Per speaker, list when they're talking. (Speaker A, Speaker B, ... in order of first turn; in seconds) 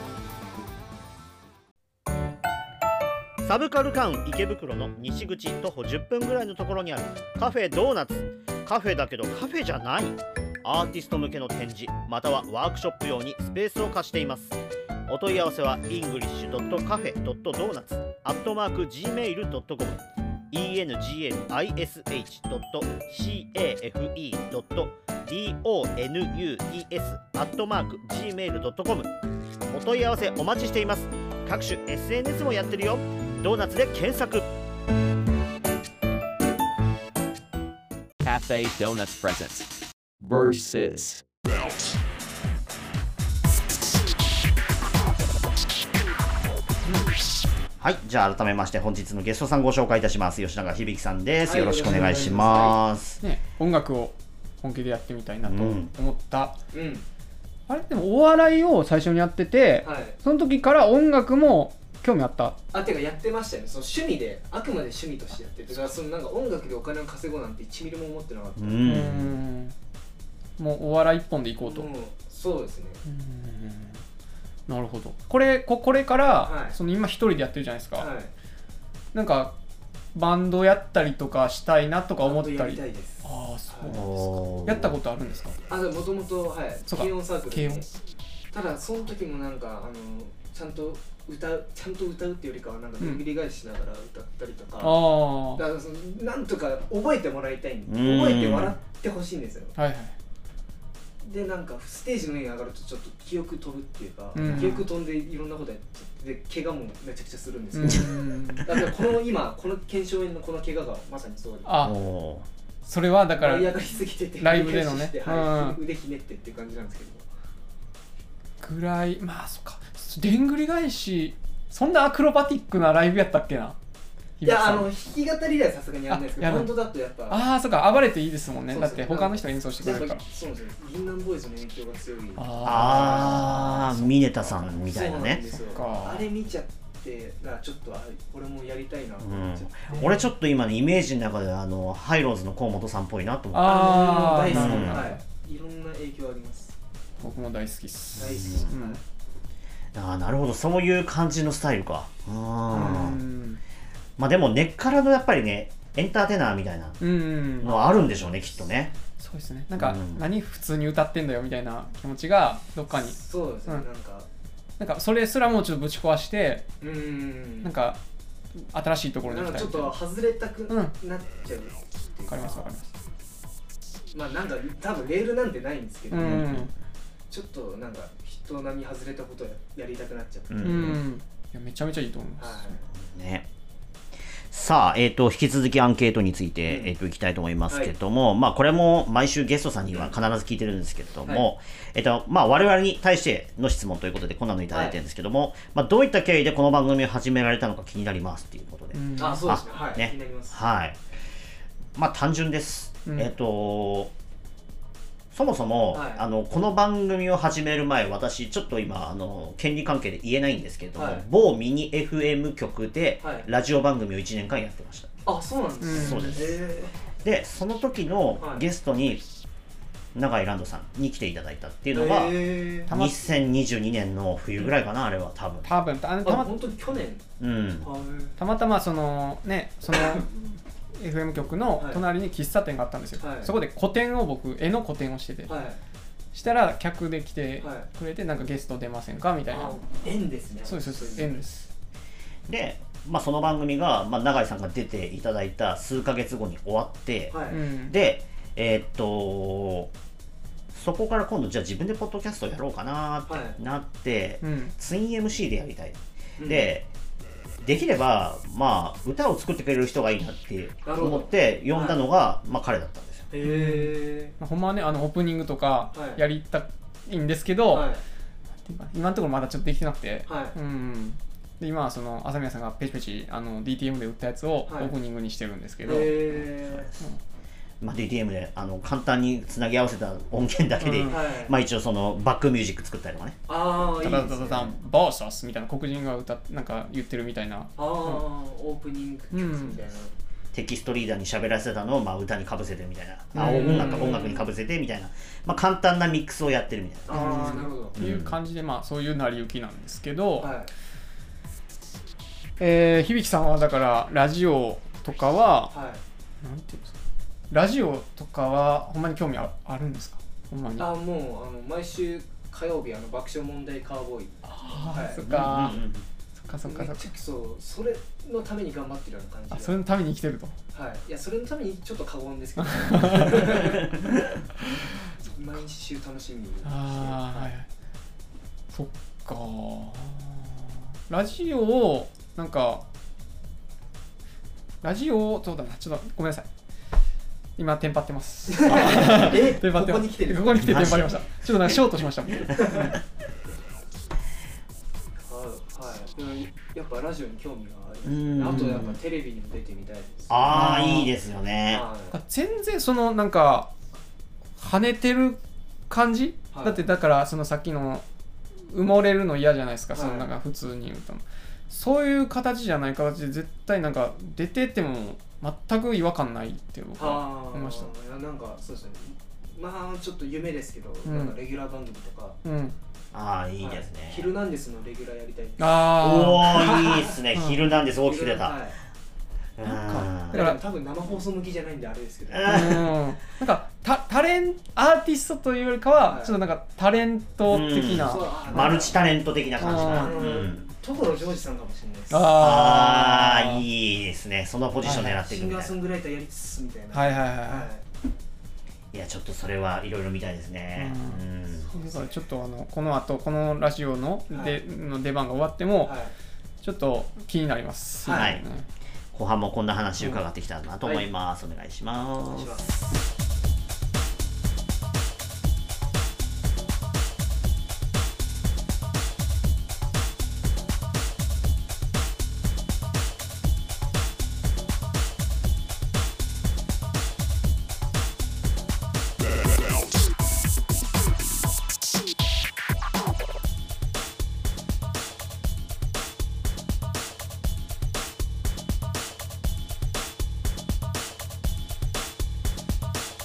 Speaker A: 3.4-29.1, 29.7-34.5, 47.8-53.2, 55.4-55.9, 68.6-69.4, 83.9-84.9, 97.9-98.7, 104.4-104.8, 107.8-108.8, 111.8-112.5, 132.6-135.4, 139.2-143.8, 144.4-145.1, 148.2-148.7, 149.9-153.2, 154.2-157.0, 157.6-158.9, 159.8-160.2, 176.2-176.7, 180.5-181.0, 183.0-183.5, 184.5-201.0, 201.9-204.1, 205.3-215.2, 215.9-216.6, 217.2-219.2, 220.1-225.7, 227.4-227.9, 242.5-249.9, 250.7-256.9, 257.6-263.3, 277.8-283.4, 290.5-297.4, 298.0-298.4, 315.2-316.0, 340.5-341.8, 348.0-349.0, 350.3-351.8, 373.1-374.3, 375.9-378.6, 379.6-380.4, 382.3-382.9, 387.5-390.7, 392.3-395.7, 398.9-401.7, 408.1-408.4, 409.1-412.8
Speaker B: 38.2-39.7, 40.2-41.7
Speaker C: 51.4-52.7, 56.7-57.0, 59.8-60.2, 62.7-68.8, 71.6-73.0, 76.4-76.8, 78.0-78.3, 82.2-84.0, 85.7-87.8, 88.5-99.7, 101.2-111.7, 113.3-117.2, 124.4-127.4, 128.7-133.5, 134.9-140.2, 143.6-146.8, 148.1-149.0, 157.6-158.3, 162.9-164.3, 166.8-167.7, 169.3-172.7, 174.1-176.6, 177.3-180.9, 182.4-182.8, 186.7-186.9, 194.7-195.0, 199.2-200.6, 205.9-206.2, 211.0-211.2, 213.2-213.5, 215.2-216.9, 218.4-218.6, 221.9-222.9, 226.2-227.2, 227.8-228.4, 229.9-230.3, 231.8-232.0, 233.2-233.5, 235.5-235.8, 237.6-237.9, 239.5-241.4, 247.3-247.6, 253.3-253.6, 256.4-256.7, 260.8-262.0, 263.3-264.3, 265.9-266.2, 267.7-268.0, 270.3-270.6, 274.6-274.9, 275.8-276.9, 281.0-281.5, 283.5-284.7, 287.8-290.1, 293.3-294.5, 297.1-298.0, 300.4-300.7, 305.7-306.0, 310.8-315.2, 316.6-319.8, 320.7-323.9, 324.7-327.5, 338.5-340.8, 342.5-342.9, 345.2-350.9, 351.7-352.1, 356.5-356.8, 359.9-360.3, 367.0-372.4, 373.6-375.8, 376.6-377.1, 378.0-378.8, 380.3-382.9, 386.1-386.4, 387.9-388.9, 389.7-392.3, 394.8-397.8, 401.6-402.2, 404.3-404.6, 405.8-406.1, 408.0-408.4, 412.2-412.7
Speaker D: 51.6-56.6, 57.7-62.6, 68.8-69.7, 70.6-71.9, 73.0-74.0, 74.7-78.1, 79.1-79.5, 80.1-85.6, 86.9-87.8, 94.8-95.6, 99.8-100.1, 104.3-104.8, 107.7-108.7, 111.7-112.0, 112.8-113.7, 114.4-115.8, 118.6-123.8, 124.4-124.9, 126.1-126.7, 127.3-130.2, 132.4-134.7, 135.7-136.2, 139.9-140.2, 143.5-145.2, 147.2-149.0, 152.7-153.6, 157.0-157.8, 159.2-163.8, 164.8-166.7, 167.6-168.0, 168.6-170.0, 170.7-170.9, 172.3-172.9, 176.1-176.7, 180.6-182.7, 198.9-199.5, 215.8-216.4, 222.9-223.3, 225.6-226.5, 228.4-235.5, 236.3-239.8, 240.7-241.7, 247.5-247.9, 254.4-254.7, 263.4-267.9, 268.6-276.4, 280.8-281.2, 284.0-288.2, 289.3-289.8, 293.3-294.3, 297.1-300.5, 302.6-305.7, 306.4-306.9, 307.5-310.9, 314.5-315.8, 316.4-317.1, 319.5-320.5, 322.6-323.8, 326.6-327.7, 328.7-332.8, 334.8-336.5, 337.6-343.0, 350.5-351.1, 352.1-353.7, 354.6-358.0, 358.7-367.9, 371.1-371.3, 372.4-372.8, 375.6-377.6, 379.7-380.6, 382.4-388.7, 389.6-390.3, 392.1-393.6, 394.8-395.2, 396.9-397.7, 400.8-406.0, 406.6-408.7